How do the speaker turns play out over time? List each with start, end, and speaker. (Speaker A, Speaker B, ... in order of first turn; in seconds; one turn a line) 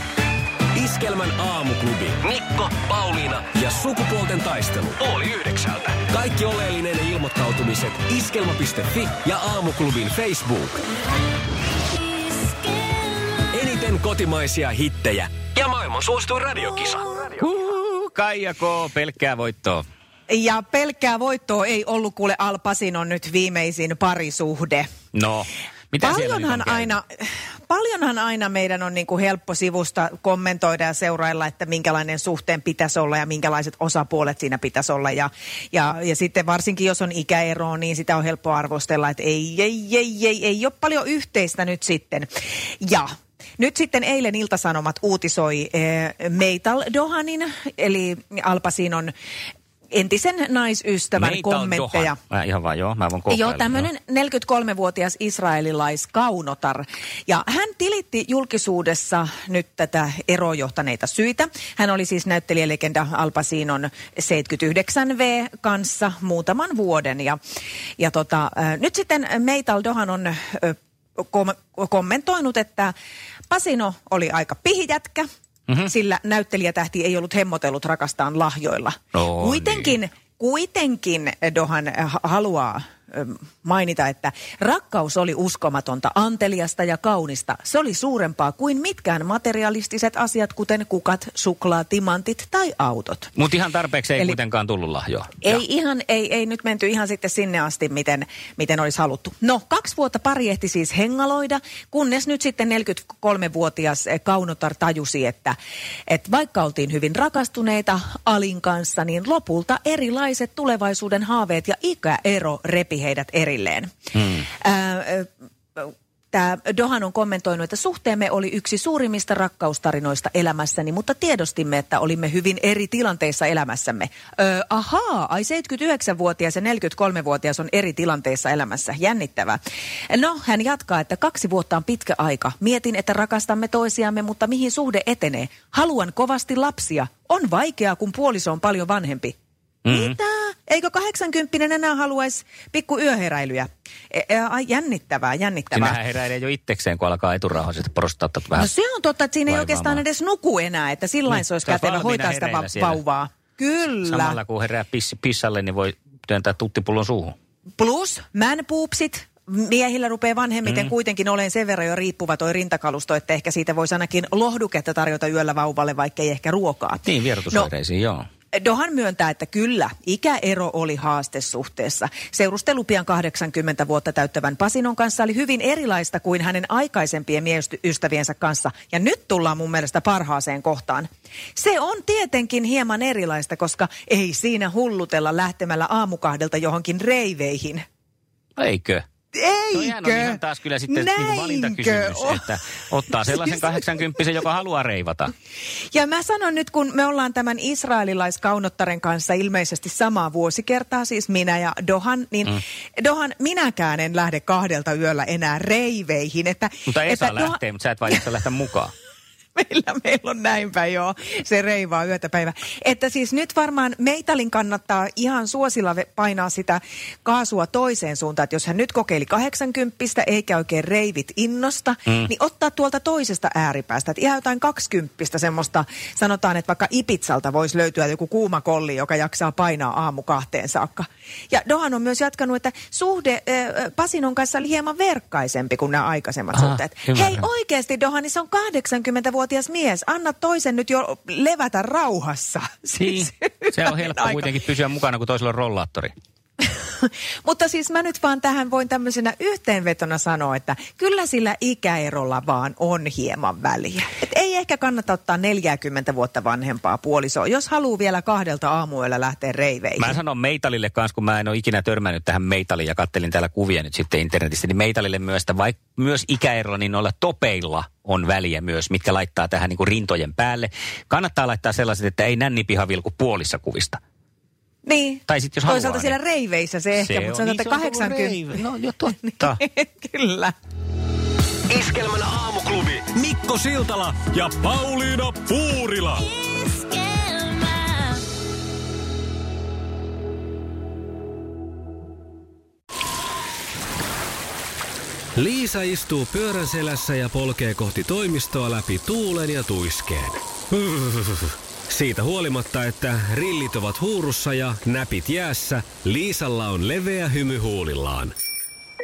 Speaker A: 0.7-10.8
Speaker A: 13.5-17.4
Speaker B: 17.4-19.8
Speaker C: 20.3-24.9
Speaker B: 25.1-26.9
Speaker C: 26.0-42.3
Speaker C: 42.8-49.1
Speaker C: 49.9-52.2
Speaker B: 51.2-53.9
Speaker C: 53.3-67.4
Speaker C: 68.0-72.9
Speaker C: 73.5-75.3
Speaker C: 75.8-93.3
Speaker B: 79.1-80.0
Speaker B: 93.3-95.6
Speaker C: 95.4-105.5
Speaker C: 106.1-129.6
Speaker C: 130.1-139.3
Speaker B: 139.8-140.2
Speaker C: 139.9-146.0
Speaker B: 145.7-148.7
Speaker C: 148.6-154.4
Speaker B: 149.5-150.0
Speaker B: 151.3-153.0
Speaker B: 154.1-157.4
Speaker C: 157.8-167.7
Speaker B: 167.1-168.3
Speaker C: 168.5-187.8
Speaker B: 188.6-189.1
Speaker C: 189.3-192.4
Speaker B: 189.7-195.3
Speaker C: 193.2-193.8
Speaker C: 195.9-208.2
Speaker B: 206.9-208.9
Speaker C: 209.6-244.5
Speaker B: 236.6-237.4
Speaker B: 243.0-246.1
Speaker C: 246.6-260.2
Speaker B: 260.0-274.0
Speaker C: 274.9-280.5
Speaker B: 275.3-276.1
Speaker B: 277.0-279.6
Speaker A: 281.7-286.3
Speaker A: 295.4-308.3